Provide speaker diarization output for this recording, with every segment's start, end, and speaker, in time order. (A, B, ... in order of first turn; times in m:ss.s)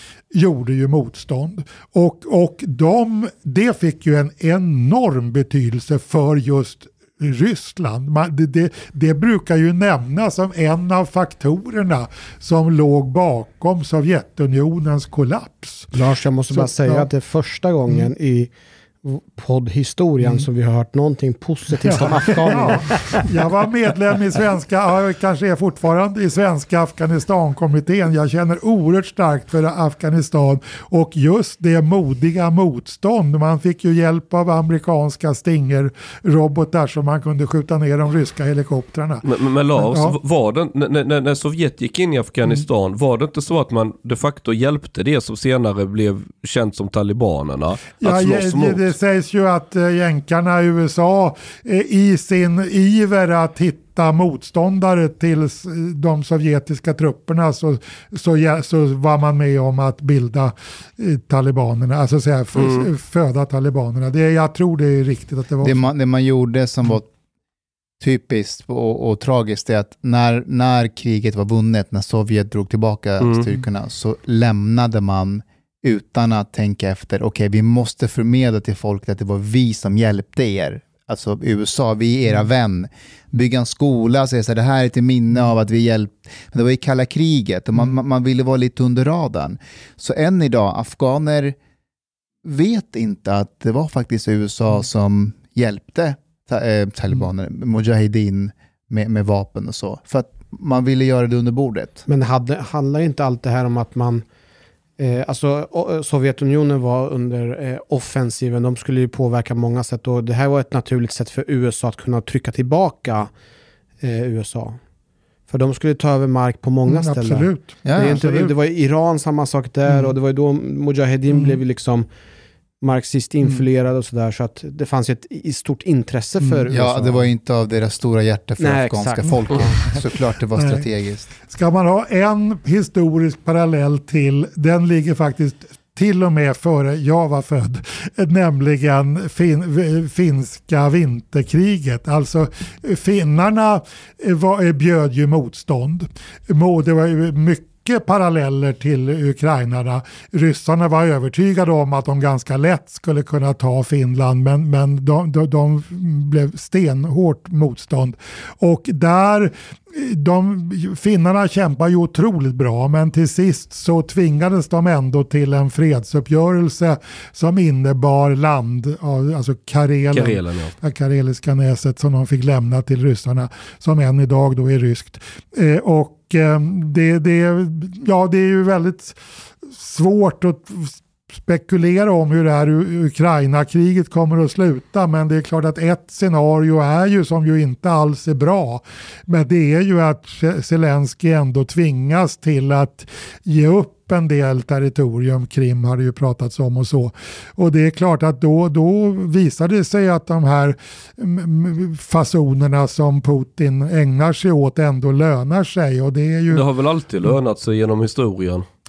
0:00.3-0:15.9 A
0:15.9-0:18.5 B
0:16.5-0:17.1 A
0:19.0-0:23.4 B
0:21.8-0:39.2 A
0:39.2-0:48.9 C
0:39.8-0:40.2 A
0:48.0-1:05.8 A
1:02.6-1:02.9 C
1:05.6-1:07.0 D
1:08.0-1:31.6 D
1:13.2-1:13.5 C
1:32.4-1:42.0 D
1:42.1-1:44.2 B
1:45.0-1:53.3 B
1:54.0-1:54.8 B
1:55.5-2:02.1 B
1:56.8-1:58.5 A
1:57.8-1:58.5 D
2:01.3-2:01.6 A
2:02.8-2:07.3 B
2:06.4-2:06.7 A
2:06.7-2:11.3 D
2:08.6-2:09.8 B
2:09.2-2:10.0 A
2:10.5-2:10.8 A
2:11.4-2:59.2 A
2:50.1-2:50.7 C
2:59.7-3:26.6 A
3:26.5-3:28.6 C